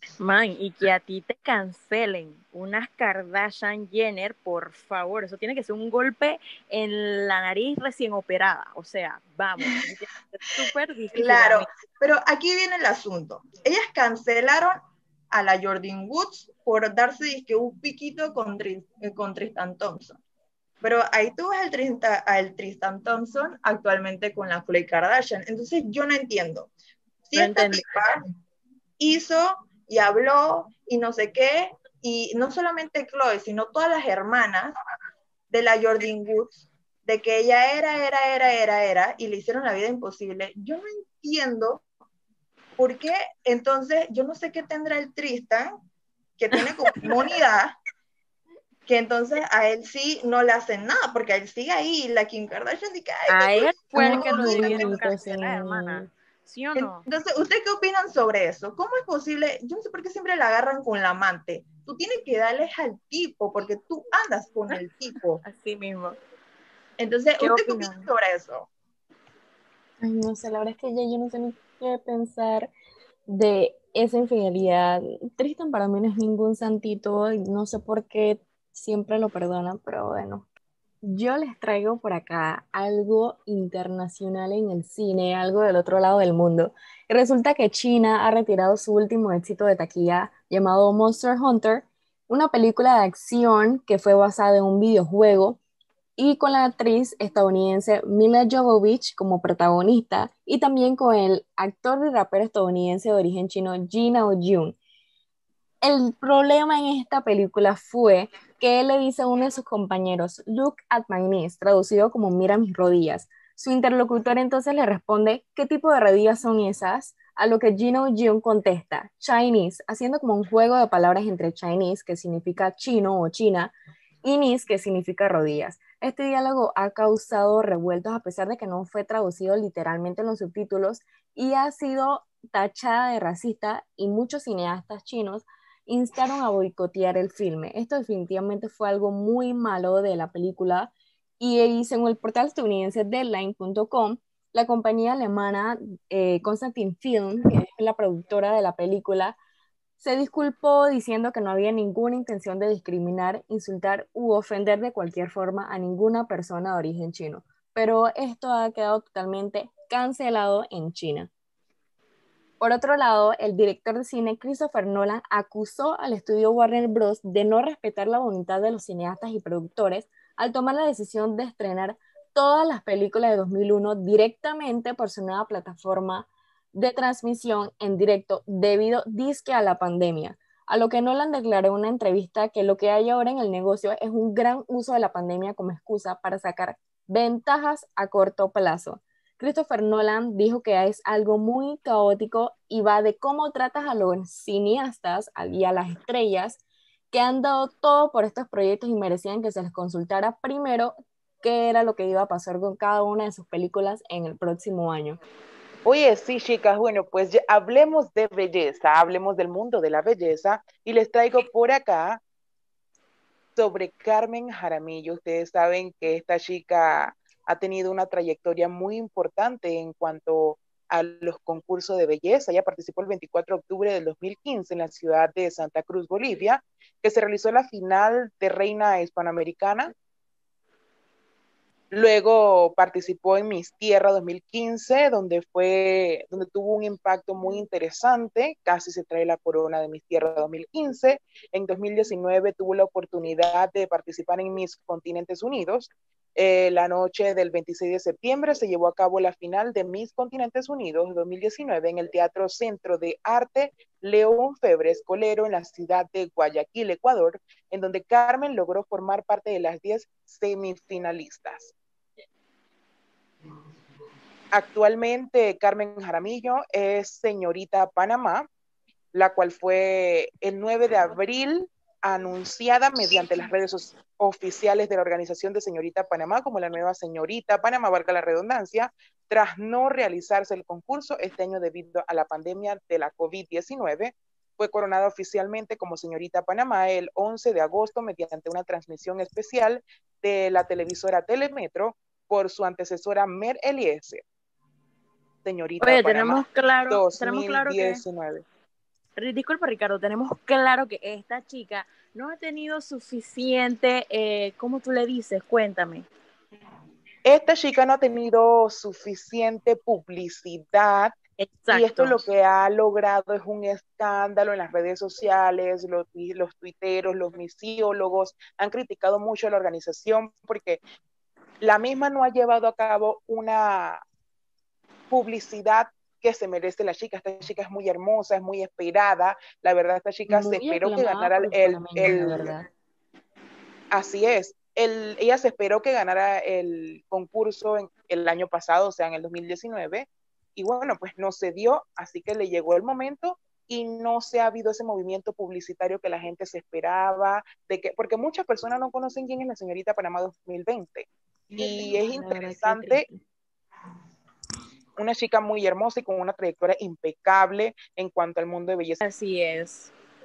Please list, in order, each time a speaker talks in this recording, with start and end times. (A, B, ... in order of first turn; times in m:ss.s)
0:00.2-0:11.7 A
0:11.1-0:14.8 B
0:15.3-0:20.2 B
0:20.8-0:26.7 B
0:27.3-0:28.2 B
0:27.3-0:27.8 A
0:29.0-0:34.8 B
0:35.5-0:41.8 B
0:42.8-0:45.7 B
0:46.4-0:47.7 B
0:46.6-0:47.1 A
0:48.9-0:55.0 B
0:53.3-0:57.0 A
0:54.0-0:56.1 C
0:56.8-1:05.4 B
1:05.4-1:06.2 A
1:07.0-1:08.7 B
1:07.4-1:08.1 A
1:10.0-1:12.7 C
1:13.3-1:20.4 C
1:21.0-1:35.6 C
1:36.2-1:44.8 C
1:45.8-2:29.4 C
2:30.0-2:41.3 C
2:42.6-3:16.6 C
3:17.1-3:25.2 C
3:25.8-3:32.2 D
3:33.6-3:49.9 D
3:51.9-4:21.7 D
4:24.5-4:28.5 D
4:29.1-4:54.2 D
4:55.4-4:58.4 D
4:55.8-4:58.0 A
4:59.2-5:06.1 A
5:07.2-5:11.2 D
5:11.4-5:12.2 A
5:11.7-5:20.8 D
5:21.6-5:24.0 D
5:25.1-5:32.5 D
5:30.3-5:32.7 C
5:33.9-5:53.0 D
5:51.5-5:53.2 C
5:55.0-5:59.0 D
5:59.0-5:59.9 A